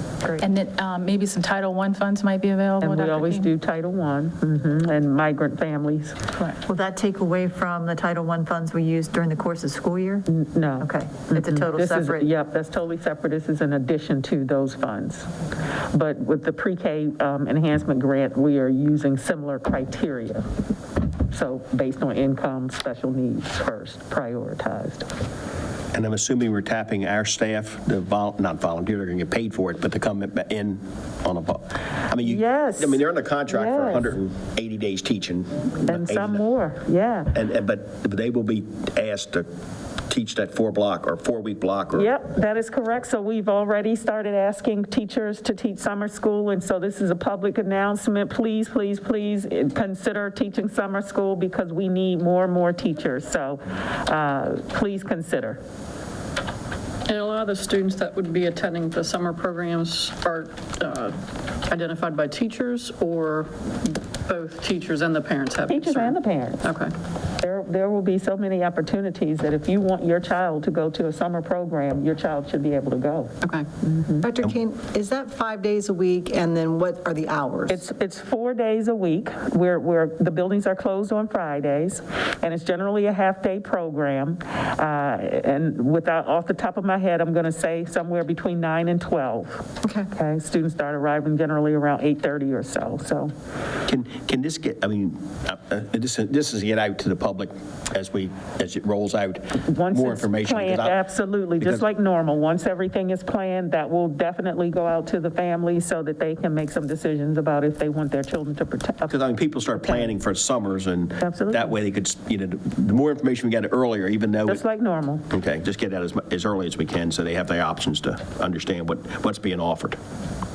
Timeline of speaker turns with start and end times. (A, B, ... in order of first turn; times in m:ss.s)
0:00.4-0:03.5 A
0:02.8-0:06.2 B
0:06.6-0:10.3 C
0:10.3-0:15.3 B
0:10.8-0:12.3 C
0:15.9-0:20.5 B
0:21.3-0:25.1 B
0:25.9-0:36.4 D
0:32.2-0:34.2 B
0:35.9-0:37.4 B
0:37.3-0:39.5 D
0:40.1-0:42.1 D
0:41.9-0:55.6 B
0:57.1-1:06.9 E
1:05.7-1:06.6 B
1:07.4-1:14.3 B
1:14.2-1:17.5 F
1:17.7-1:33.3 B
1:33.9-1:41.0 D
1:39.7-1:49.2 B
1:49.1-1:54.6 D
1:49.8-1:50.1 B
1:51.2-1:51.8 B
1:54.5-1:55.2 B
1:55.3-2:00.0 D